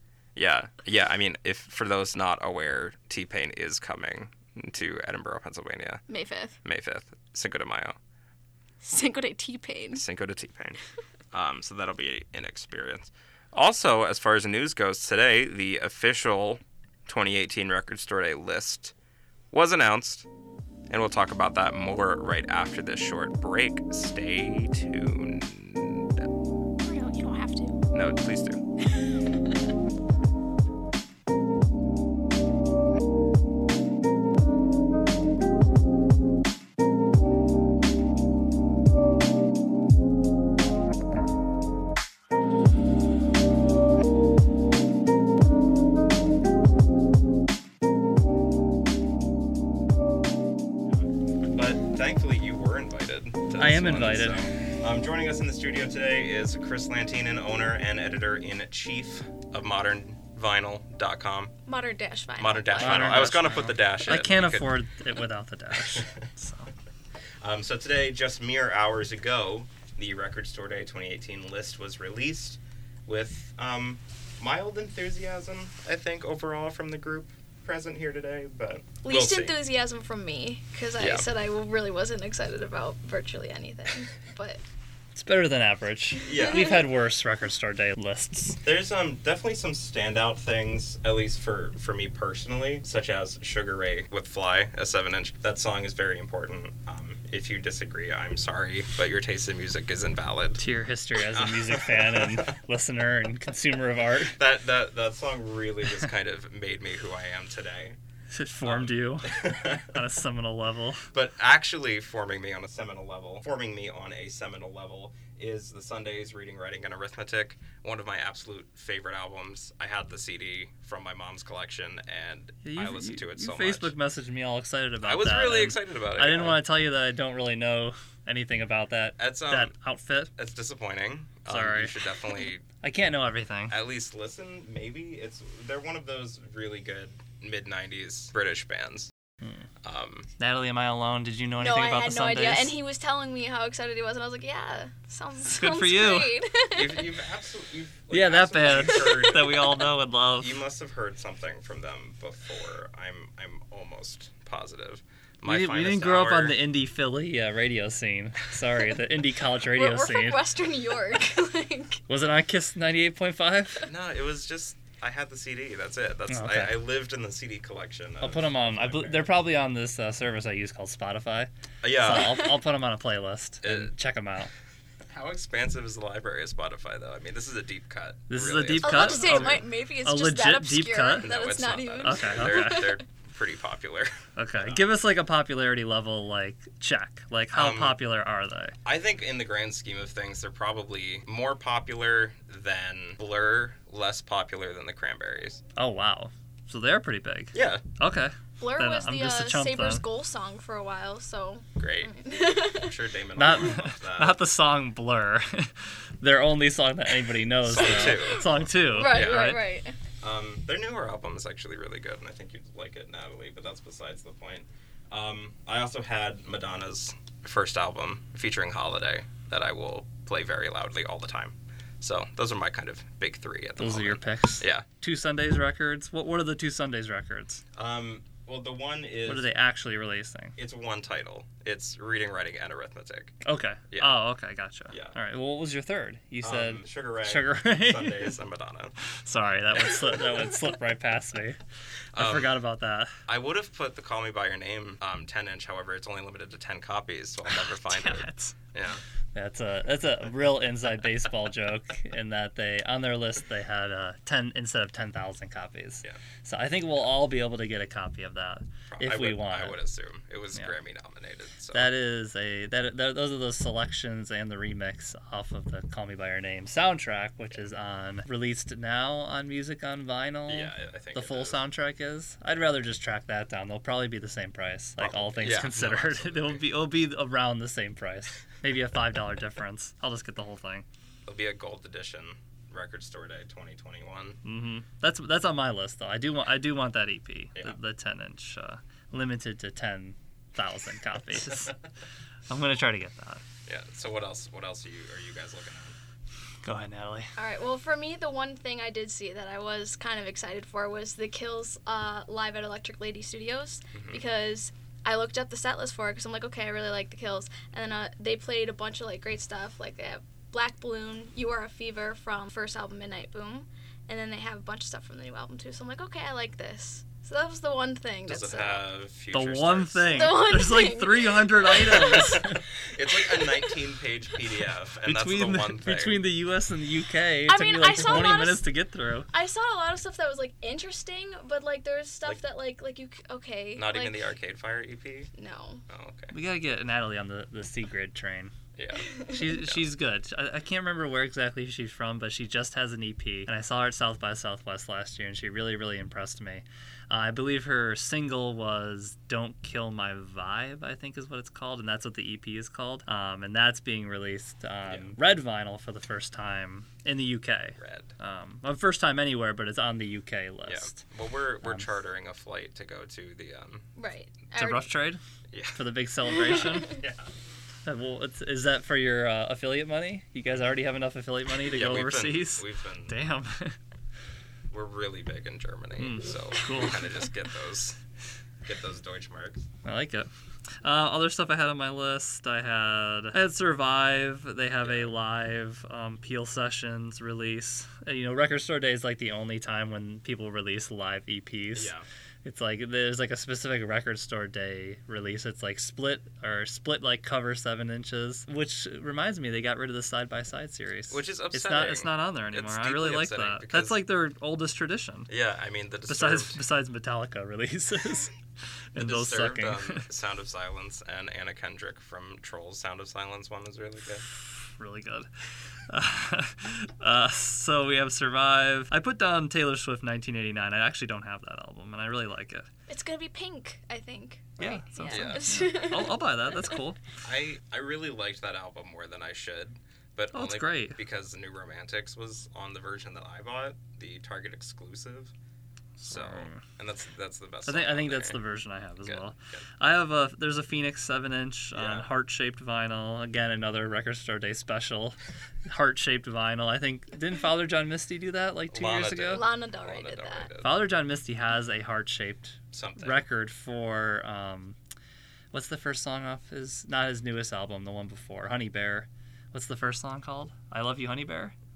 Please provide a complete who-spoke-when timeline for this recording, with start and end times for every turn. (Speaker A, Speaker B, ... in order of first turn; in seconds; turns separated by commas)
Speaker A: 0.3-6.0, Speaker B: 6.1-6.6, Speaker A: 6.7-8.0, Speaker B: 8.8-10.0, Speaker A: 9.9-10.8, Speaker A: 11.3-18.9, Speaker A: 19.5-20.3, Speaker A: 20.9-26.3, Speaker B: 26.8-27.8, Speaker A: 27.9-28.6, Speaker B: 28.9-29.5, Speaker A: 51.0-61.5, Speaker C: 53.6-54.5, Speaker B: 61.7-63.4, Speaker A: 62.4-64.8, Speaker C: 62.8-66.7, Speaker A: 65.7-66.2, Speaker A: 67.4-79.6, Speaker B: 79.0-84.6, Speaker A: 81.0-81.3, Speaker C: 85.2-88.6, Speaker A: 86.2-86.8, Speaker A: 88.6-100.6, Speaker C: 100.6-104.4, Speaker A: 101.2-102.5, Speaker A: 104.3-108.0, Speaker C: 108.3-111.0, Speaker A: 108.6-110.0, Speaker A: 111.1-123.9, Speaker C: 122.6-130.3, Speaker A: 125.0-126.6, Speaker A: 129.2-129.7, Speaker A: 130.4-132.7, Speaker C: 131.5-131.9, Speaker C: 132.8-133.8, Speaker A: 133.7-139.1, Speaker A: 139.8-140.3, Speaker C: 140.4-142.8, Speaker B: 141.6-147.1, Speaker C: 145.5-146.4, Speaker A: 146.7-149.9, Speaker C: 148.1-150.6, Speaker A: 150.4-156.6, Speaker C: 155.4-160.5, Speaker B: 159.7-162.0, Speaker C: 162.1-163.9, Speaker A: 163.8-169.3, Speaker C: 166.3-166.7, Speaker C: 168.2-174.5, Speaker A: 171.8-172.5, Speaker A: 173.6-173.9, Speaker A: 175.1-179.6, Speaker C: 178.3-181.3, Speaker B: 178.8-183.0, Speaker A: 181.2-184.8, Speaker C: 182.0-182.9, Speaker C: 184.4-188.8, Speaker A: 187.5-188.0, Speaker A: 188.8-195.6, Speaker C: 195.8-200.1, Speaker A: 197.5-197.8, Speaker B: 198.6-202.9, Speaker A: 201.8-204.4, Speaker C: 203.4-209.6, Speaker A: 207.6-209.6, Speaker B: 208.0-209.9, Speaker A: 210.2-224.9, Speaker C: 223.8-227.6, Speaker A: 227.8-229.5, Speaker C: 229.3-230.6, Speaker A: 230.6-233.4, Speaker C: 233.4-238.4, Speaker A: 234.9-235.2, Speaker A: 236.4-238.9, Speaker C: 239.2-241.6, Speaker A: 242.1-242.5, Speaker C: 242.2-243.1, Speaker A: 243.3-249.0, Speaker C: 247.5-248.6, Speaker C: 249.3-259.8, Speaker A: 258.9-261.9, Speaker C: 261.7-280.9, Speaker A: 270.5-271.6, Speaker A: 275.0-276.6, Speaker A: 281.2-284.4, Speaker C: 284.4-291.8, Speaker C: 292.5-293.4, Speaker A: 293.7-295.9, Speaker C: 296.6-297.3, Speaker B: 297.4-318.9, Speaker A: 303.9-304.2, Speaker A: 318.3-320.4, Speaker C: 319.3-322.6, Speaker B: 320.1-322.6, Speaker A: 322.1-326.2, Speaker B: 323.2-323.6, Speaker C: 325.0-329.3, Speaker B: 327.5-328.6, Speaker B: 329.3-334.2, Speaker A: 333.8-335.3, Speaker B: 335.4-335.8, Speaker A: 335.9-336.3, Speaker C: 336.3-338.5, Speaker A: 338.8-339.9, Speaker C: 339.1-361.0, Speaker A: 354.9-355.1, Speaker A: 357.8-358.1, Speaker A: 360.7-363.9, Speaker C: 361.6-361.9, Speaker B: 364.0-364.9, Speaker C: 364.5-365.2, Speaker A: 365.5-365.8, Speaker C: 365.7-367.0, Speaker A: 367.0-367.3, Speaker C: 367.9-373.8, Speaker A: 371.7-373.1, Speaker A: 374.7-378.0, Speaker C: 376.0-377.2, Speaker A: 378.6-379.6, Speaker C: 379.9-380.3, Speaker C: 380.8-405.3, Speaker A: 384.8-385.1, Speaker A: 391.7-392.1, Speaker A: 401.1-404.0, Speaker A: 405.3-406.6, Speaker C: 406.1-408.3, Speaker C: 408.9-410.1, Speaker A: 408.9-414.2, Speaker C: 414.6-422.7, Speaker B: 422.9-426.2, Speaker C: 424.6-427.0, Speaker A: 425.1-425.7, Speaker A: 427.2-435.3, Speaker C: 430.3-431.0, Speaker C: 436.0-436.6, Speaker A: 436.1-438.4, Speaker C: 437.6-449.5, Speaker A: 439.0-439.6, Speaker A: 441.8-442.1, Speaker A: 448.7-450.8, Speaker B: 449.3-450.5, Speaker C: 450.6-454.8, Speaker A: 452.7-453.2, Speaker C: 455.5-461.5